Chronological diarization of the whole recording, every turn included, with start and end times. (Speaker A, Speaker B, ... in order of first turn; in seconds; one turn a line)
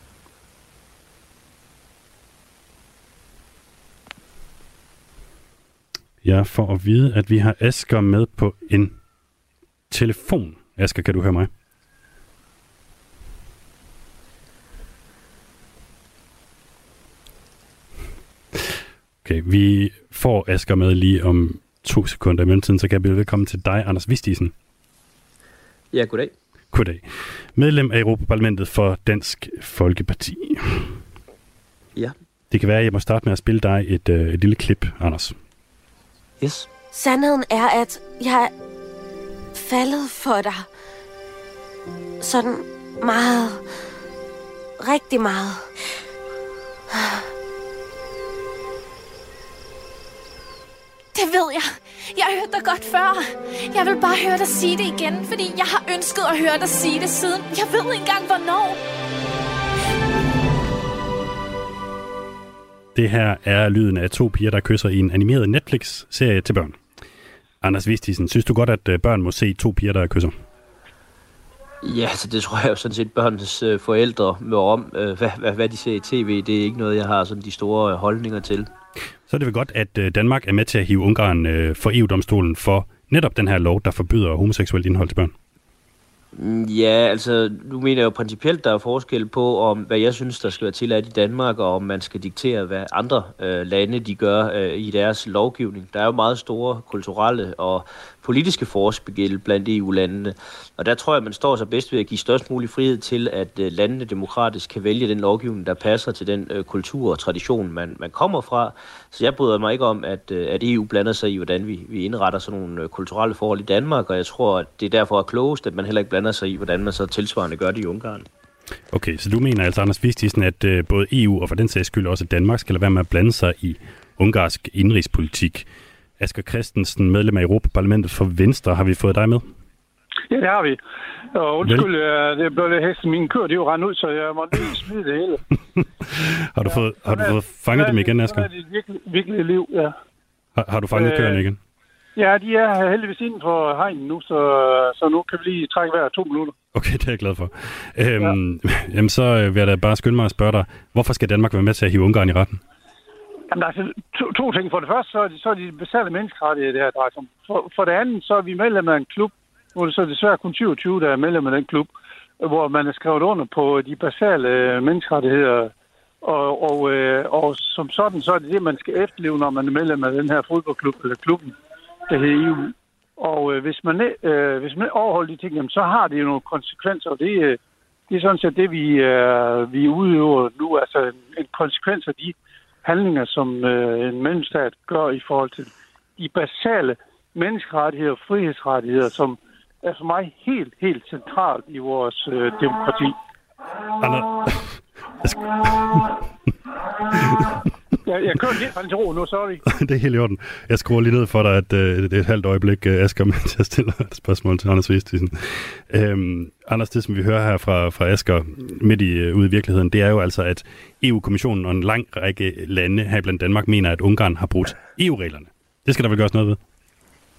Speaker A: 6.2-8.9
Speaker A: 9.9-11.5
Speaker A: 19.2-24.5
Speaker B: 25.9-26.3
Speaker A: 26.7-30.9
Speaker A: 32.5-35.3
Speaker B: 36.4-36.7
Speaker C: 36.9-38.5
Speaker C: 39.5-40.7
Speaker C: 42.2-43.6
Speaker C: 44.8-45.7
Speaker C: 46.9-47.2
Speaker D: 51.1-58.8
Speaker A: 62.9-66.8
Speaker A: 67.6-70.3
Speaker B: 71.8-78.7
Speaker A: 79.3-85.3
Speaker B: 86.3-118.3
Speaker A: 118.9-125.7
Speaker A: 126.2-129.4
Speaker E: 130.3-130.8
Speaker E: 131.3-135.4
Speaker A: 135.8-138.5
Speaker E: 136.6-139.9
Speaker A: 140.6-141.6
Speaker E: 140.9-141.4
Speaker E: 142.2-146.5
Speaker A: 146.7-152.6
Speaker E: 153.5-171.5
Speaker E: 172.1-193.2
Speaker A: 194.0-196.2
Speaker A: 197.1-197.7
Speaker E: 198.1-199.6
Speaker A: 199.7-216.6